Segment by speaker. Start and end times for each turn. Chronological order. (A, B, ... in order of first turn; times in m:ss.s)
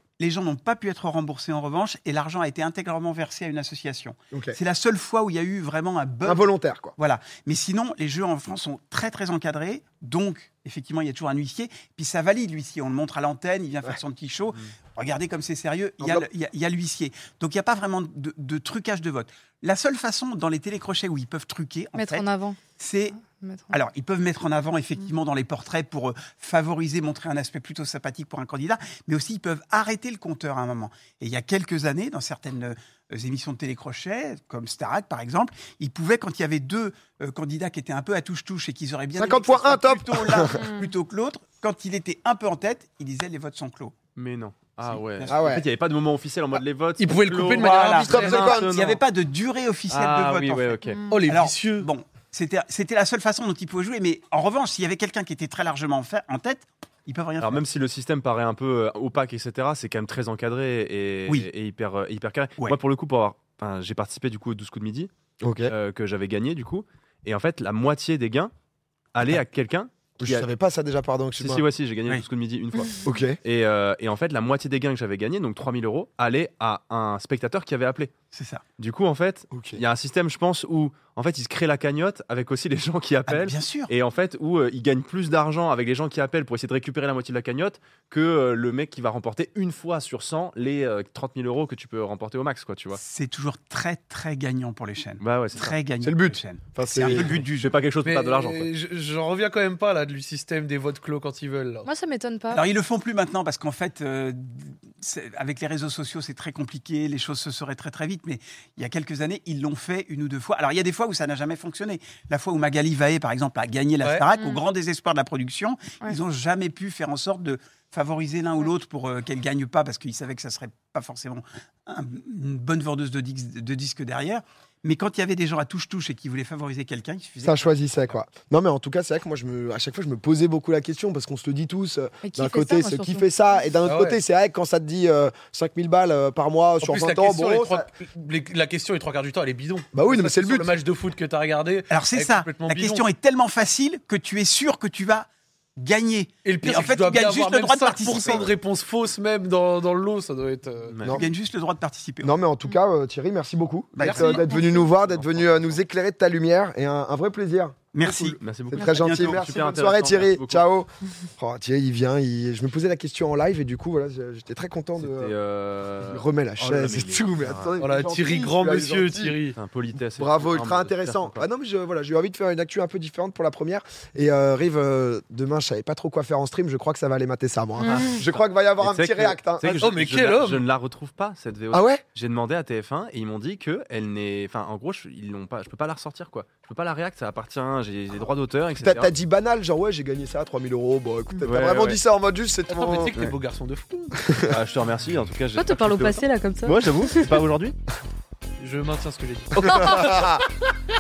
0:00.2-0:22.2 A
0:04.3-0:04.6 B
0:06.2-0:06.9 B
0:16.0-0:16.3 B
0:22.0-0:22.6 C
0:22.8-0:23.2 A
0:23.2-0:23.8 C
0:23.7-0:43.9 A
0:39.2-0:40.7 B
0:40.6-0:40.8 C
0:44.2-0:49.0 D
0:44.9-0:45.5 A
0:45.3-0:45.6 B
0:47.0-0:48.5 E
0:47.6-0:57.6 A
0:47.9-0:48.7 B
0:49.9-0:51.0 D
0:50.0-0:50.4 E
0:51.1-0:51.9 E
0:57.4-1:05.1 D
1:05.4-1:05.7 B
1:05.6-1:08.5 D
1:09.1-1:10.5 D
1:10.2-1:11.6 B
1:11.4-1:18.1 D
1:13.0-1:13.4 B
1:18.3-1:18.6 A
1:18.8-1:33.0 D
1:19.5-1:19.8 B
1:23.3-1:23.9 A
1:32.9-1:37.7 A
1:35.2-1:35.7 D
1:36.0-1:37.4 B
1:37.0-1:38.7 D
1:38.0-1:41.9 E
1:41.8-1:42.6 C
1:42.5-2:08.2 A
1:54.0-1:54.3 E
1:54.3-1:54.6 C
2:07.4-2:17.9 B
2:12.2-2:13.6 C
2:13.8-2:14.2 E
2:16.8-2:23.0 E
2:19.9-2:20.7 B
2:21.9-2:28.5 A
2:26.4-2:31.0 E
2:30.9-2:31.2 D
2:31.1-2:32.3 A
2:32.2-2:45.3 B
2:34.0-2:34.3 A
2:34.0-2:34.8 E
2:35.0-2:35.8 D
2:37.9-2:38.4 A
2:38.4-2:40.6 D
2:38.9-2:39.4 A
2:45.0-2:47.8 D
2:46.0-2:49.4 B
2:47.8-2:49.6 E
2:49.5-2:51.4 D
2:50.1-2:59.9 B
2:57.8-2:58.2 C
2:57.8-3:09.1 D
2:59.8-3:00.6 E
3:01.7-3:02.0 B
3:08.8-3:13.1 B
3:11.4-3:12.0 D
3:12.7-3:14.2 E
3:14.5-3:17.8 D
3:15.6-3:17.4 C
3:18.6-3:20.2 E
3:19.6-3:20.4 B
3:19.6-3:19.9 C